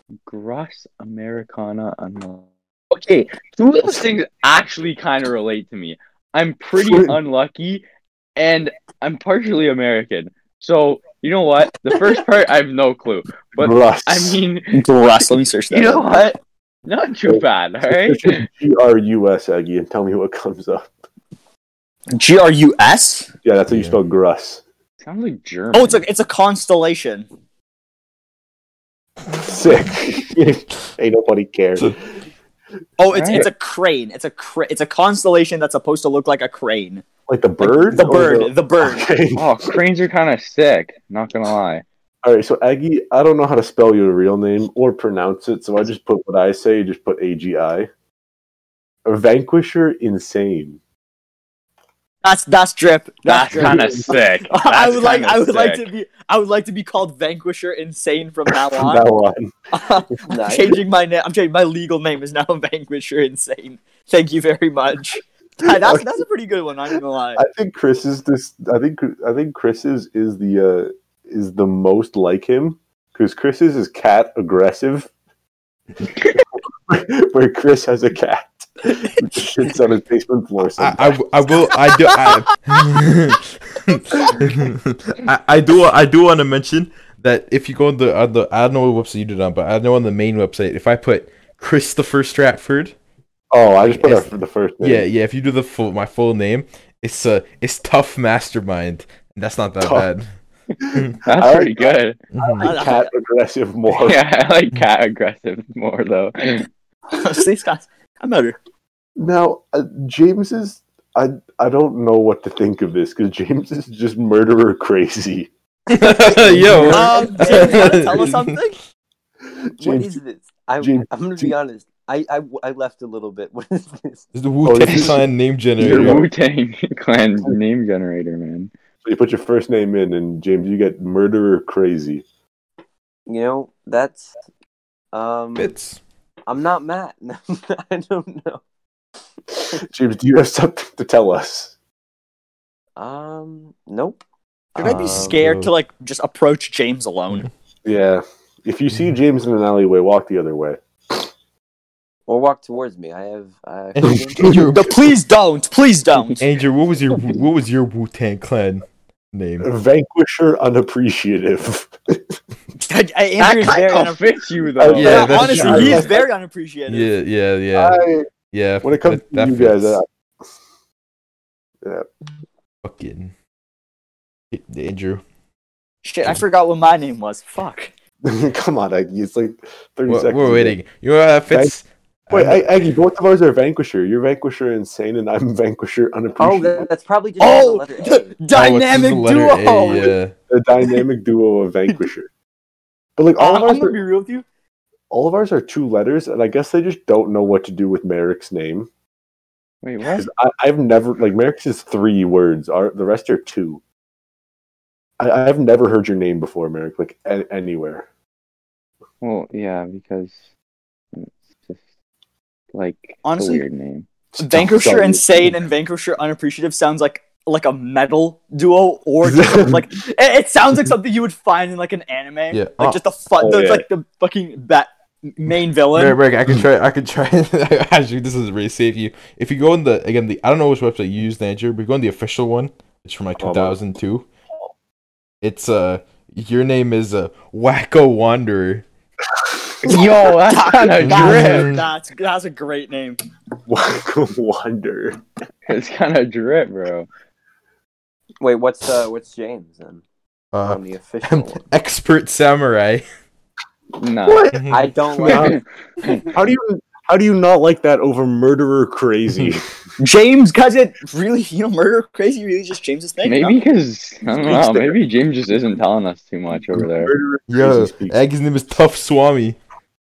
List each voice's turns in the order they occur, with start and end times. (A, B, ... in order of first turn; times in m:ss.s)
0:00.3-0:07.8 A
0:06.7-0:07.2 B
0:08.4-0:14.8 A
0:13.6-0:14.4 B
0:14.7-0:16.3 C
0:15.7-0:18.5 A
0:17.3-0:20.9 B
0:22.1-0:23.3 C
0:23.4-0:24.6 B
0:23.7-0:24.0 D
0:25.0-0:26.0 A
0:25.7-0:27.2 C
0:29.3-0:32.0 B
0:33.0-0:37.0 C
0:33.1-0:33.5 A
0:37.3-0:39.8 B
0:37.6-0:39.1 C
0:39.3-0:41.8 A
0:42.2-0:47.9 B
0:49.0-0:50.8 B
0:52.2-0:59.0 C
0:53.2-0:55.9 A
0:53.5-0:54.2 B
0:58.6-0:59.5 B
0:59.7-1:07.4 C
1:00.3-1:00.8 E
1:05.6-1:06.2 B
1:07.4-1:15.1 B
1:16.5-1:21.2 B
1:20.7-1:32.9 D
1:21.9-1:22.5 C
1:33.5-1:35.1 B
1:33.8-1:40.3 D
1:39.8-1:40.1 B
1:40.8-1:41.9 B
1:40.9-1:41.2 D
1:41.2-1:42.2 A
1:42.3-1:42.7 D
1:42.6-1:43.1 C
1:42.6-1:44.2 B
1:43.9-1:46.7 A
1:47.1-1:48.6 C
1:49.2-1:55.5 B
1:55.9-1:58.6 D
1:56.0-1:58.8 C
1:56.4-1:57.6 B
1:59.5-2:00.2 B
1:59.8-2:04.2 E
2:00.8-2:01.5 B
2:04.3-2:06.2 D
2:04.6-2:05.3 B
2:05.8-2:06.3 B
2:05.8-2:08.7 A
2:09.0-2:12.2 B
2:13.3-2:14.4 E
2:15.1-2:15.7 E
2:15.6-2:16.0 D
2:16.5-2:18.6 E
2:19.5-2:21.7 B
2:23.0-2:24.2 E
2:24.7-2:25.4 E
2:24.8-2:27.5 C
2:24.8-2:25.7 D
2:27.8-2:31.3 B
2:32.3-2:34.6 E
2:34.0-2:35.1 D
2:34.1-2:34.6 B
2:34.7-2:36.4 C
2:36.3-2:39.7 D
2:39.6-2:42.4 B
2:42.8-2:44.2 C
2:43.4-2:45.6 A
2:44.8-2:46.3 B
2:44.9-2:46.1 D
2:45.0-2:47.1 C
2:46.9-2:50.0 D
2:47.7-2:48.3 B
2:48.8-2:50.0 B
2:51.8-2:52.1 B
2:52.8-2:53.3 D
2:54.5-2:55.2 D
2:56.0-2:57.9 C
2:58.2-3:00.8 B
3:00.1-3:02.7 D
3:01.5-3:01.7 B
3:02.3-3:06.9 B
3:06.4-3:08.3 E
3:07.4-3:10.1 C
3:08.5-3:10.3 D
3:10.5-3:12.3 B
3:13.2-3:14.0 B
3:13.4-3:14.4 C
3:15.1-3:18.9 B
3:19.8-3:20.3 A
3:20.0-3:23.8 B
3:25.2-3:28.0 B
3:29.2-3:30.4 A
3:31.1-3:31.8 A
3:32.7-3:34.1 A
3:33.2-3:33.6 C
3:34.3-3:35.6 B
3:34.4-3:46.2 C
3:39.3-3:39.8 B
3:42.5-3:43.0 D
3:43.4-3:43.8 B
3:45.9-3:54.3 D
3:53.4-3:53.8 B
3:55.4-3:58.8 D
3:59.8-4:01.7 A
3:59.8-4:03.2 C
4:00.9-4:01.8 D
4:03.7-4:05.2 B
4:05.7-4:07.1 A
4:08.4-4:10.0 E
4:10.5-4:13.0 D
4:10.6-4:11.6 E
4:14.0-4:14.6 A
4:14.2-4:14.6 B
4:14.5-4:14.9 D
4:14.7-4:15.6 E
4:15.2-4:16.2 A
4:15.2-4:15.6 B
4:16.2-4:19.7 B
4:20.0-4:23.6 C
4:23.2-4:27.1 A
4:24.4-4:25.0 B
4:26.5-4:28.2 B
4:27.5-4:29.6 D